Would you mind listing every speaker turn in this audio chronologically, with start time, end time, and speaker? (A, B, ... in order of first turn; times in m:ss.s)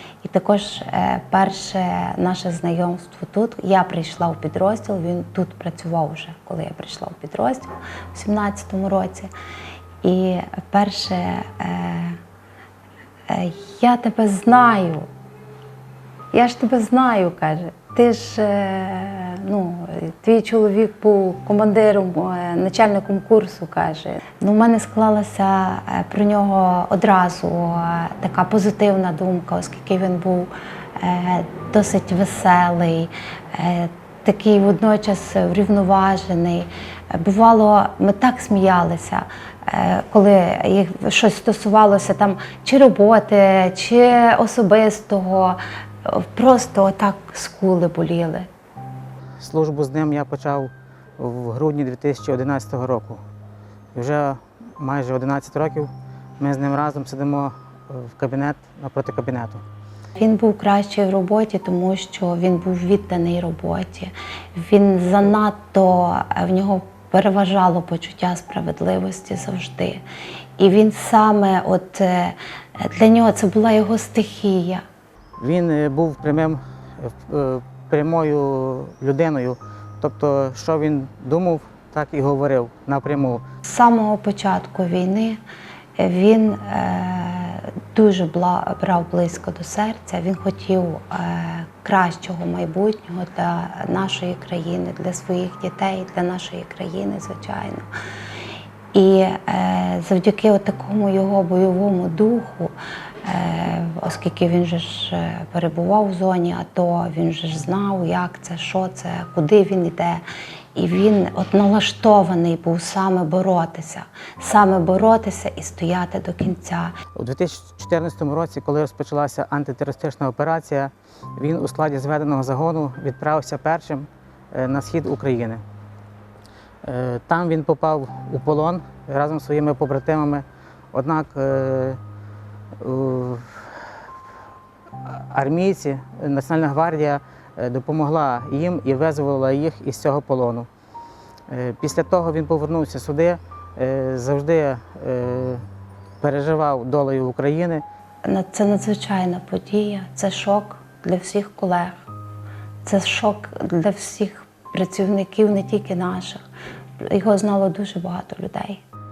0:00.2-0:09.3 A
0:10.0-0:12.2 A
0:13.3-0:15.1 A
0:16.3-0:48.5 A
0:49.4-0:53.2 B
0:54.0-0:59.6 B
1:00.2-1:10.0 A
1:10.6-1:14.8 A
1:15.4-1:23.4 B
1:23.6-1:25.4 A
1:26.0-1:37.9 A
1:38.9-1:50.2 A
1:50.8-1:57.0 A
1:57.2-2:05.6 B
2:06.8-2:12.0 B
2:12.8-2:14.0 B
2:15.0-2:20.7 B
2:21.5-2:25.7 B
2:26.2-2:27.8 B
2:28.2-2:32.0 A
2:32.8-2:36.4 A
2:37.0-2:38.8 A